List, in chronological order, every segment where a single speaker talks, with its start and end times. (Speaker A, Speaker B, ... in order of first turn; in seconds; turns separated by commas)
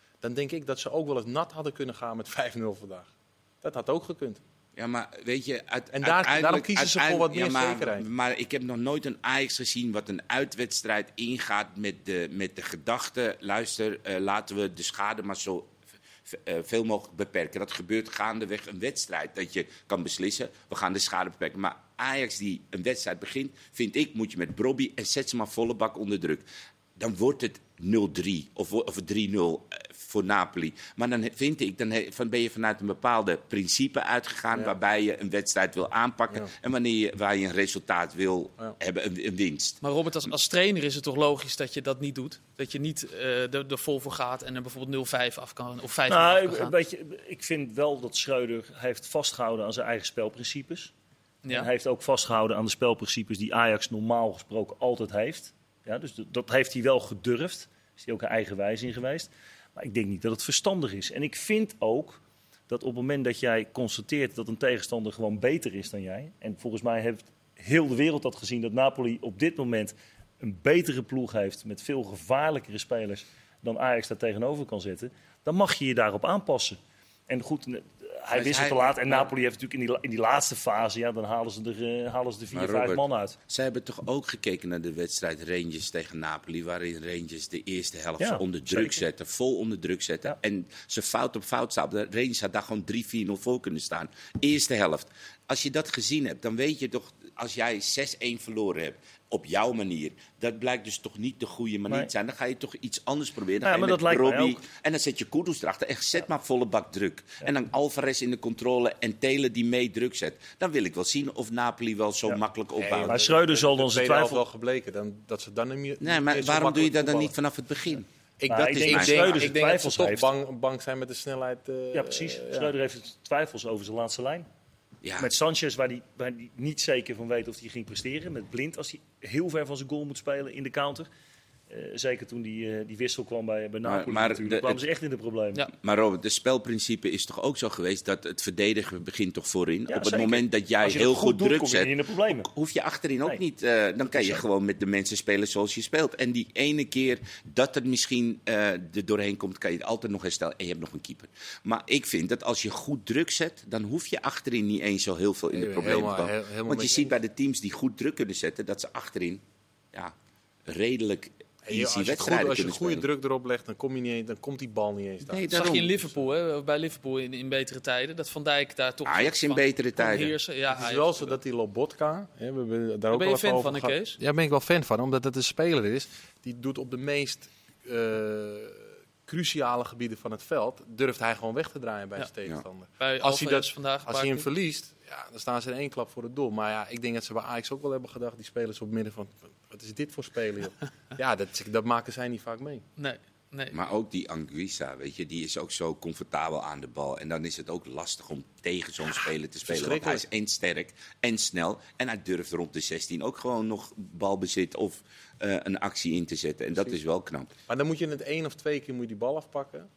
Speaker A: 0.2-4.4, Speaker B: 4.8-15.7, Speaker A: 5.9-8.1, Speaker B: 16.2-39.8, Speaker C: 39.8-46.8, Speaker D: 46.1-50.9, Speaker C: 51.4-51.7, Speaker D: 51.5-83.4, Speaker B: 78.3-79.3, Speaker B: 82.5-113.2, Speaker D: 88.2-89.0, Speaker D: 103.6-104.6, Speaker A: 112.8-117.3, Speaker D: 113.1-114.4, Speaker B: 116.0-119.5, Speaker A: 118.4-122.7, Speaker D: 118.5-120.3, Speaker D: 121.9-124.5, Speaker B: 125.0-125.3, Speaker D: 125.2-131.1, Speaker D: 131.7-135.7, Speaker B: 133.8-134.8, Speaker B: 135.7-160.1, Speaker D: 139.9-142.5, Speaker D: 144.1-144.4, Speaker A: 155.5-157.1, Speaker B: 160.7-163.0, Speaker A: 161.7-166.2, Speaker B: 165.2-165.9, Speaker C: 165.5-171.3, Speaker B: 169.1-170.4, Speaker A: 170.7-192.8, Speaker C: 173.1-174.2, Speaker C: 183.0-184.5, Speaker C: 193.0-193.8, Speaker B: 193.7-207.5, Speaker A: 199.7-200.2, Speaker A: 207.7-209.9